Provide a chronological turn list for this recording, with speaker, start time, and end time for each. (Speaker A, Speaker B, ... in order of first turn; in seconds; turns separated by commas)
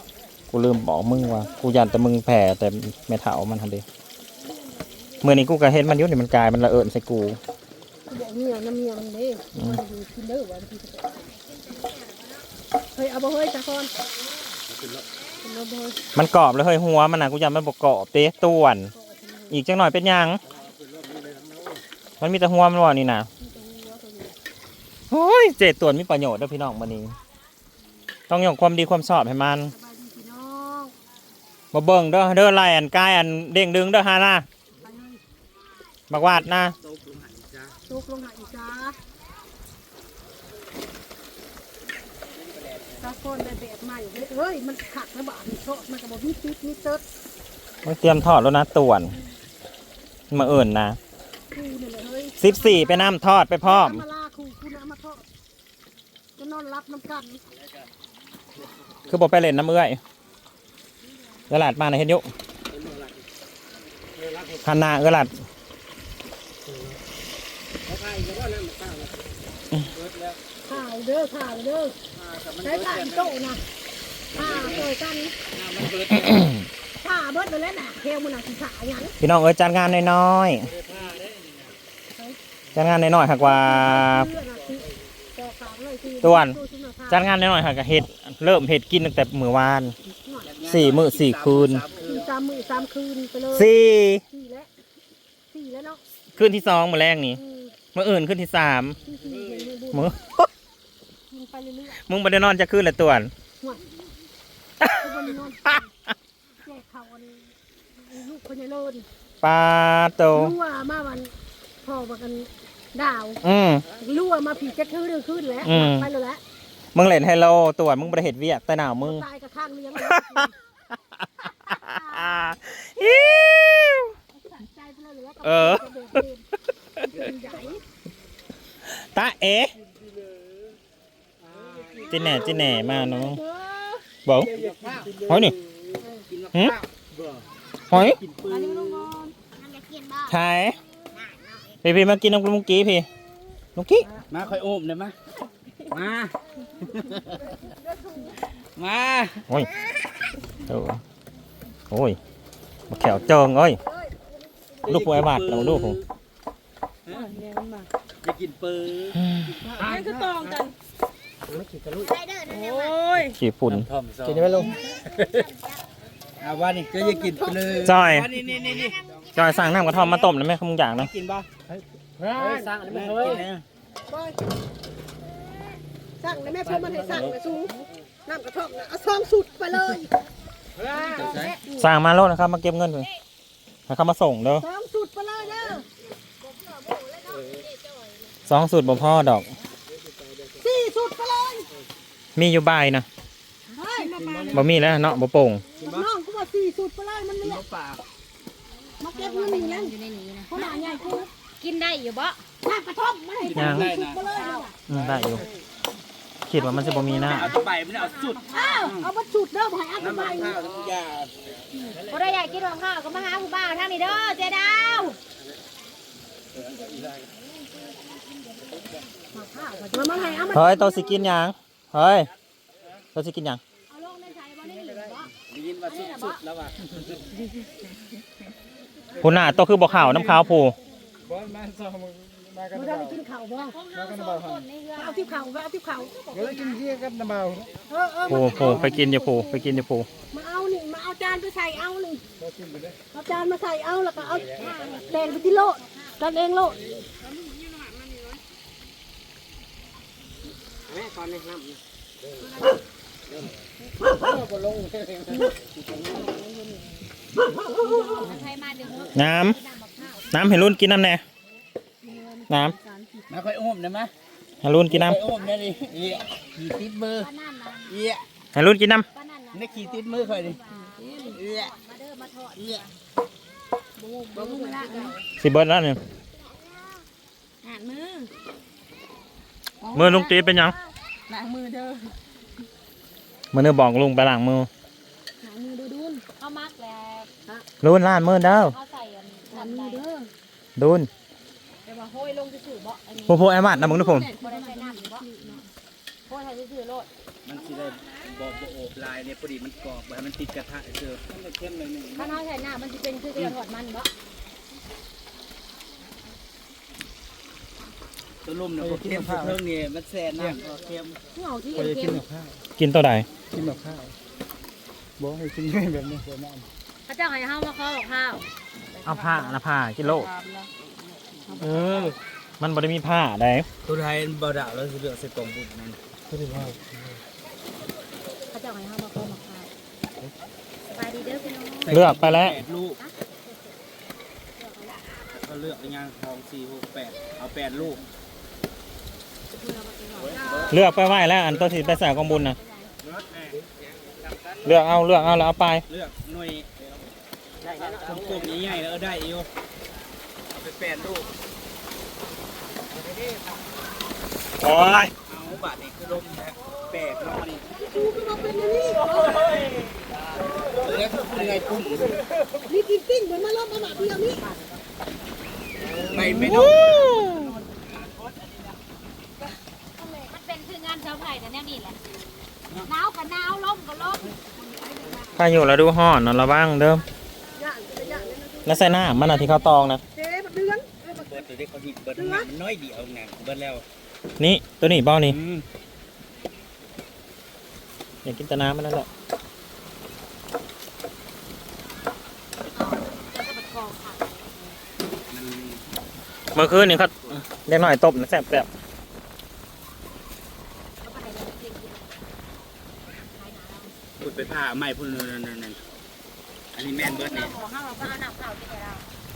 Speaker A: 0.5-3.9, Speaker A: 5.2-7.4, Speaker B: 8.1-11.2, Speaker C: 11.8-12.1, Speaker B: 12.9-13.9, Speaker D: 14.7-15.1, Speaker B: 15.4-16.0, Speaker A: 16.1-18.9, Speaker B: 18.9-19.6, Speaker A: 19.5-20.4, Speaker D: 20.5-21.8, Speaker A: 22.2-23.3, Speaker B: 23.4-24.4, Speaker A: 25.1-27.2, Speaker A: 28.3-29.7, Speaker B: 29.7-30.9, Speaker A: 31.7-34.5, Speaker B: 34.8-35.2, Speaker A: 36.1-36.8, Speaker D: 36.4-37.8, Speaker B: 37.9-39.0, Speaker D: 42.3-43.1, Speaker B: 43.0-47.0, Speaker A: 47.8-49.1, Speaker A: 50.3-51.0, Speaker B: 51.5-55.2, Speaker A: 52.4-54.0, Speaker B: 56.4-57.4, Speaker A: 59.1-60.0, Speaker A: 61.5-62.3, Speaker D: 62.7-63.2, Speaker D: 64.2-64.6, Speaker A: 64.6-65.3, Speaker D: 67.9-69.3, Speaker D: 69.9-70.4, Speaker B: 70.7-72.0, Speaker D: 72.1-73.3, Speaker B: 72.6-73.6, Speaker D: 74.3-74.9, Speaker B: 74.3-75.3, Speaker D: 75.5-76.5, Speaker B: 77.0-79.1, Speaker A: 79.2-80.7, Speaker E: 80.7-81.5, Speaker D: 81.3-81.7, Speaker A: 82.8-84.3, Speaker B: 83.3-87.3, Speaker A: 86.2-86.6, Speaker A: 87.1-90.0, Speaker B: 90.1-90.5, Speaker D: 90.5-92.3, Speaker A: 90.7-91.9, Speaker B: 92.0-93.7, Speaker A: 93.5-94.2, Speaker B: 94.3-94.7, Speaker B: 95.5-96.0, Speaker A: 96.3-97.4, Speaker B: 97.4-97.7, Speaker A: 97.9-99.0, Speaker B: 99.0-100.1, Speaker D: 99.2-99.7, Speaker A: 99.9-100.5, Speaker B: 101.3-102.0, Speaker A: 102.1-103.3, Speaker B: 105.0-105.8, Speaker B: 106.6-109.1, Speaker A: 109.4-110.6, Speaker B: 110.3-111.3, Speaker B: 111.8-113.4, Speaker A: 113.4-113.9, Speaker B: 114.0-116.4, Speaker A: 115.7-116.1, Speaker A: 117.0-119.2, Speaker B: 119.0-120.5, Speaker A: 120.0-120.5, Speaker A: 121.7-124.1, Speaker B: 121.8-122.3, Speaker B: 124.4-126.5, Speaker A: 125.4-126.2, Speaker B: 127.0-127.8, Speaker D: 127.2-127.8, Speaker A: 128.8-129.8, Speaker D: 131.4-132.4, Speaker B: 131.8-134.0, Speaker A: 132.1-133.4, Speaker A: 134.3-134.5, Speaker D: 134.4-139.1, Speaker A: 135.3-135.5, Speaker B: 136.0-136.3, Speaker A: 137.9-138.2, Speaker C: 138.5-140.3, Speaker B: 138.8-139.1, Speaker A: 140.3-140.8, Speaker A: 141.8-143.1, Speaker A: 143.8-144.1, Speaker D: 144.3-145.2, Speaker D: 145.9-147.6, Speaker B: 147.5-148.4, Speaker D: 148.8-149.5, Speaker A: 150.7-151.0, Speaker A: 151.9-152.2, Speaker A: 152.9-153.8, Speaker B: 153.8-154.2, Speaker D: 154.8-156.1, Speaker A: 154.9-156.0, Speaker B: 157.4-157.9, Speaker D: 158.2-159.2, Speaker C: 159.7-160.7, Speaker D: 159.8-160.5, Speaker D: 161.5-164.7, Speaker C: 162.0-163.3, Speaker A: 163.3-163.9, Speaker D: 166.4-170.1, Speaker B: 166.9-168.0, Speaker A: 167.8-168.3, Speaker C: 168.4-170.3, Speaker A: 169.3-171.1, Speaker D: 171.0-171.5, Speaker E: 171.8-173.4, Speaker D: 172.3-173.6, Speaker B: 174.1-174.4, Speaker B: 176.2-177.7, Speaker D: 176.8-177.3, Speaker B: 178.3-180.1, Speaker D: 180.9-181.6, Speaker B: 180.9-181.5, Speaker A: 181.7-183.1, Speaker A: 183.9-184.7, Speaker B: 184.6-185.9, Speaker B: 186.6-187.6, Speaker A: 188.5-189.5, Speaker B: 190.6-191.7, Speaker A: 192.4-193.1, Speaker B: 193.7-194.7, Speaker D: 194.2-194.7, Speaker A: 194.5-195.6, Speaker D: 195.8-196.1, Speaker B: 195.8-197.6, Speaker D: 197.4-198.0, Speaker B: 199.0-199.9, Speaker C: 199.1-202.4, Speaker B: 200.5-201.3, Speaker B: 202.6-204.8, Speaker D: 203.5-204.2, Speaker A: 203.6-203.9, Speaker C: 204.2-204.7, Speaker A: 204.9-205.4, Speaker D: 204.9-205.5, Speaker A: 206.5-207.6, Speaker C: 206.6-208.9, Speaker D: 207.2-209.1, Speaker B: 208.5-210.6, Speaker D: 210.0-211.6, Speaker C: 211.9-215.2, Speaker D: 216.5-217.3, Speaker C: 219.3-220.7, Speaker B: 219.9-221.2, Speaker A: 220.5-222.3, Speaker A: 223.2-223.6, Speaker C: 223.9-225.3, Speaker D: 225.5-227.2, Speaker C: 225.8-226.4, Speaker A: 229.2-230.8, Speaker E: 231.3-233.2, Speaker B: 232.7-233.8, Speaker C: 233.7-235.5, Speaker E: 234.0-234.6, Speaker B: 235.0-236.9, Speaker E: 236.6-237.7, Speaker B: 237.9-239.8, Speaker A: 238.3-240.1, Speaker B: 240.3-242.2, Speaker E: 242.4-242.9, Speaker B: 243.1-246.8, Speaker D: 244.3-244.9, Speaker C: 244.4-246.2, Speaker D: 247.2-248.4, Speaker D: 250.9-251.8, Speaker D: 254.1-255.6, Speaker B: 255.3-256.9, Speaker B: 257.7-258.4, Speaker C: 257.9-260.4, Speaker A: 259.1-259.6, Speaker A: 260.3-261.2, Speaker B: 262.0-263.2, Speaker A: 262.5-262.8, Speaker D: 263.3-264.1, Speaker A: 264.6-265.2, Speaker D: 264.9-267.3, Speaker C: 265.4-265.7, Speaker C: 267.2-268.0, Speaker D: 267.9-268.3, Speaker A: 268.6-269.1, Speaker C: 269.1-272.9, Speaker D: 269.5-270.6, Speaker B: 270.8-271.4, Speaker D: 271.3-271.7, Speaker D: 272.6-272.9, Speaker B: 274.0-275.2, Speaker C: 274.3-275.2, Speaker A: 275.4-276.0, Speaker B: 277.7-278.2, Speaker A: 279.9-280.8, Speaker C: 280.0-280.3, Speaker B: 281.3-281.9, Speaker A: 283.5-284.7, Speaker B: 285.4-286.2, Speaker C: 286.4-287.3, Speaker A: 287.8-288.8, Speaker C: 288.4-290.0, Speaker B: 289.5-290.3, Speaker A: 290.8-291.1, Speaker C: 291.9-293.5, Speaker A: 293.3-294.3, Speaker B: 293.7-295.6, Speaker C: 294.3-295.2, Speaker C: 296.3-297.1, Speaker D: 297.4-302.4, Speaker C: 302.1-304.1, Speaker D: 308.4-311.2, Speaker E: 308.9-309.5, Speaker C: 311.4-312.2, Speaker E: 311.8-312.5, Speaker A: 312.8-313.3, Speaker E: 313.5-314.1, Speaker E: 315.2-316.6, Speaker D: 316.2-316.6, Speaker C: 317.1-318.4, Speaker A: 319.1-320.3, Speaker C: 320.2-320.6, Speaker D: 321.6-322.1, Speaker E: 321.6-322.1, Speaker A: 322.6-323.7, Speaker D: 323.9-326.0, Speaker E: 326.3-326.8, Speaker C: 328.5-329.7, Speaker C: 330.9-332.0, Speaker D: 331.8-333.0, Speaker A: 331.9-332.6, Speaker D: 335.3-338.0, Speaker C: 339.6-342.9, Speaker D: 340.2-340.8, Speaker A: 340.7-342.6, Speaker D: 343.1-344.9, Speaker A: 344.6-345.9, Speaker D: 345.9-346.9, Speaker C: 347.7-348.6, Speaker D: 347.8-349.5, Speaker D: 350.5-351.3, Speaker A: 354.6-355.1, Speaker D: 355.3-357.7, Speaker B: 357.8-359.6, Speaker D: 360.7-362.2, Speaker B: 362.6-364.5, Speaker D: 365.9-368.8, Speaker A: 366.2-367.4, Speaker B: 370.0-370.3, Speaker C: 370.3-372.0, Speaker C: 372.8-374.3, Speaker B: 374.4-375.4, Speaker A: 375.4-377.1, Speaker B: 377.6-379.2, Speaker A: 378.7-380.0, Speaker B: 380.1-381.4, Speaker D: 381.1-383.9, Speaker B: 382.1-382.5, Speaker A: 384.4-385.4, Speaker D: 385.2-385.6, Speaker A: 388.2-389.1, Speaker C: 392.7-394.8, Speaker D: 395.3-395.9, Speaker A: 396.6-398.7, Speaker C: 401.0-402.1, Speaker C: 403.2-403.9, Speaker D: 404.2-405.9, Speaker D: 406.7-407.6, Speaker C: 406.9-409.0